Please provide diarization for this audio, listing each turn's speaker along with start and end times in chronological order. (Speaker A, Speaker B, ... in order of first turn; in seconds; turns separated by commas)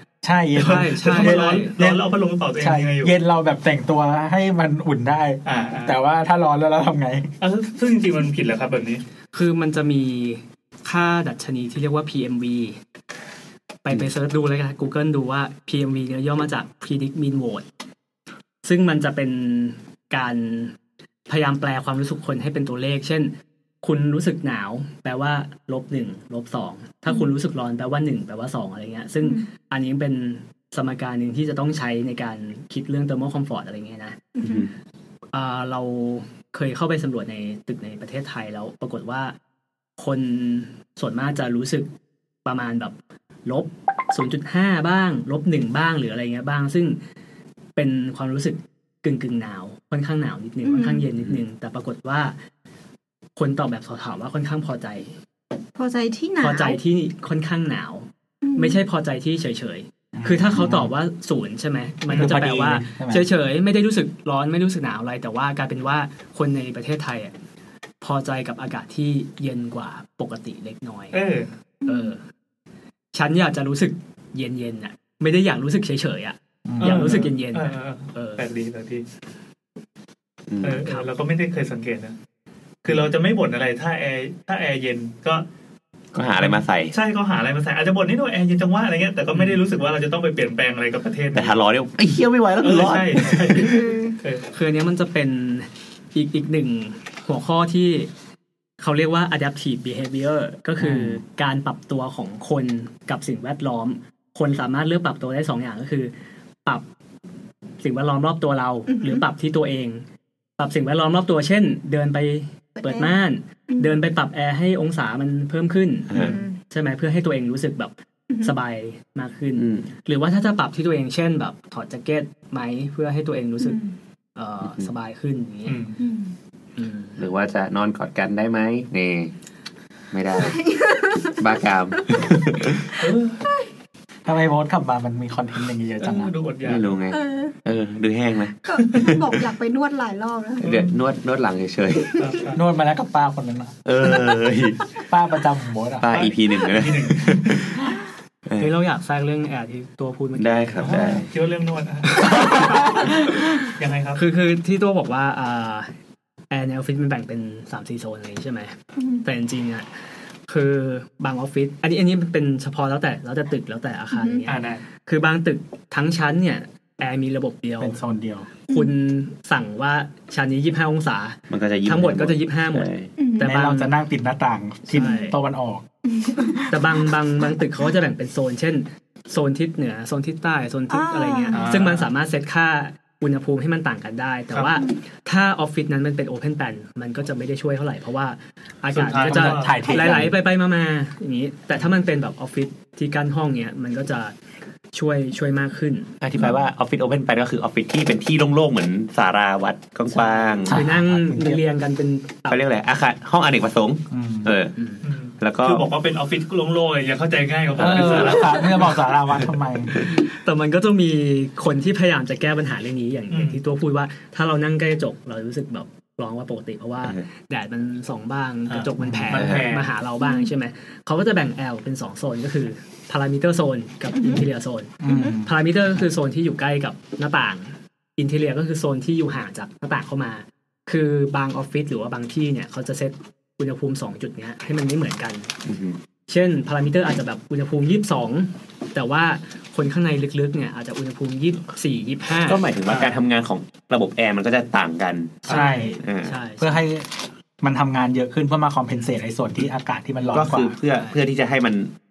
Speaker A: 0.2-2.0, Speaker B: 0.6-3.1, Speaker C: 0.6-1.7, Speaker A: 2.6-7.3, Speaker B: 5.4-6.0, Speaker B: 7.4-9.0, Speaker C: 9.3-12.8, Speaker C: 13.8-17.6, Speaker C: 18.6-20.7, Speaker C: 21.3-34.2, Speaker D: 34.3-34.7, Speaker E: 34.4-34.7, Speaker C: 35.3-39.3, Speaker C: 40.0-41.9, Speaker C: 42.4-47.0, Speaker C: 47.8-52.4, Speaker D: 50.6-51.1, Speaker C: 53.4-55.1, Speaker D: 55.8-56.8, Speaker C: 56.4-67.3, Speaker D: 58.4-58.8, Speaker A: 60.1-60.9, Speaker A: 62.1-63.3, Speaker C: 68.0-71.2, Speaker B: 71.1-71.5, Speaker D: 71.8-72.1, Speaker C: 71.8-72.2, Speaker C: 73.1-78.4, Speaker A: 76.7-77.3, Speaker B: 76.8-79.0, Speaker E: 80.5-80.8, Speaker B: 80.6-82.2, Speaker C: 80.8-81.1, Speaker B: 82.8-85.4, Speaker E: 86.1-86.9, Speaker B: 86.4-91.5, Speaker E: 91.3-93.7, Speaker B: 92.6-94.4, Speaker D: 93.6-94.2, Speaker C: 94.5-98.1, Speaker C: 98.8-106.1, Speaker E: 100.8-101.2, Speaker C: 107.8-110.0, Speaker D: 108.9-109.2, Speaker C: 110.6-123.8, Speaker D: 112.8-113.1, Speaker D: 113.7-114.0, Speaker E: 116.1-116.4, Speaker D: 116.2-116.6, Speaker E: 119.6-119.9, Speaker D: 123.6-123.9, Speaker C: 124.3-125.8, Speaker E: 124.6-124.9, Speaker B: 125.7-126.0, Speaker D: 126.0-126.3, Speaker C: 126.8-127.2, Speaker E: 127.2-129.3, Speaker E: 130.1-130.6, Speaker D: 130.3-132.2, Speaker E: 131.4-133.0, Speaker B: 133.0-133.4, Speaker D: 133.1-133.6, Speaker A: 134.2-136.3, Speaker B: 136.0-137.0, Speaker E: 136.6-139.4, Speaker D: 137.1-137.6, Speaker D: 138.6-140.6, Speaker E: 140.6-142.2, Speaker B: 140.6-140.9, Speaker B: 142.2-142.6, Speaker A: 142.5-143.7, Speaker E: 143.8-144.8, Speaker A: 145.1-146.1, Speaker E: 146.0-147.9, Speaker B: 146.1-147.4, Speaker E: 148.4-148.7, Speaker C: 148.6-151.2, Speaker E: 150.3-151.2, Speaker B: 150.8-153.1, Speaker C: 152.2-153.1, Speaker B: 153.7-154.2, Speaker C: 154.1-155.9, Speaker C: 156.5-159.9, Speaker D: 159.0-159.2, Speaker C: 160.5-168.0, Speaker D: 164.1-164.4, Speaker B: 164.5-164.8, Speaker A: 167.8-168.5, Speaker C: 168.7-172.9, Speaker E: 171.5-173.1, Speaker D: 173.2-173.5, Speaker C: 173.4-173.9, Speaker A: 173.4-175.8, Speaker C: 174.9-175.3, Speaker D: 174.9-175.3, Speaker D: 176.1-176.7, Speaker C: 176.7-194.3, Speaker D: 180.9-181.7, Speaker B: 181.5-182.1, Speaker B: 188.9-189.8, Speaker A: 189.2-190.3, Speaker D: 189.8-190.2, Speaker C: 194.9-196.1, Speaker E: 196.2-200.8, Speaker C: 200.1-202.6, Speaker A: 200.7-201.6, Speaker E: 202.5-204.7, Speaker A: 204.1-204.5, Speaker C: 204.8-205.1, Speaker B: 205.0-209.0, Speaker E: 205.4-205.9, Speaker A: 207.7-210.1, Speaker E: 207.9-208.3, Speaker C: 210.1-235.5, Speaker B: 213.3-213.6, Speaker B: 218.7-219.9, Speaker A: 219.0-219.5, Speaker E: 219.3-219.7, Speaker D: 220.2-220.5, Speaker D: 224.1-224.4, Speaker A: 225.0-225.5, Speaker D: 225.1-225.3, Speaker E: 235.7-236.0, Speaker C: 236.3-242.6, Speaker E: 242.4-245.4, Speaker B: 242.8-243.2, Speaker B: 245.4-245.7, Speaker C: 245.5-246.8, Speaker A: 245.5-246.0, Speaker E: 246.0-246.4, Speaker A: 246.6-250.8, Speaker E: 250.3-251.9, Speaker C: 250.9-251.2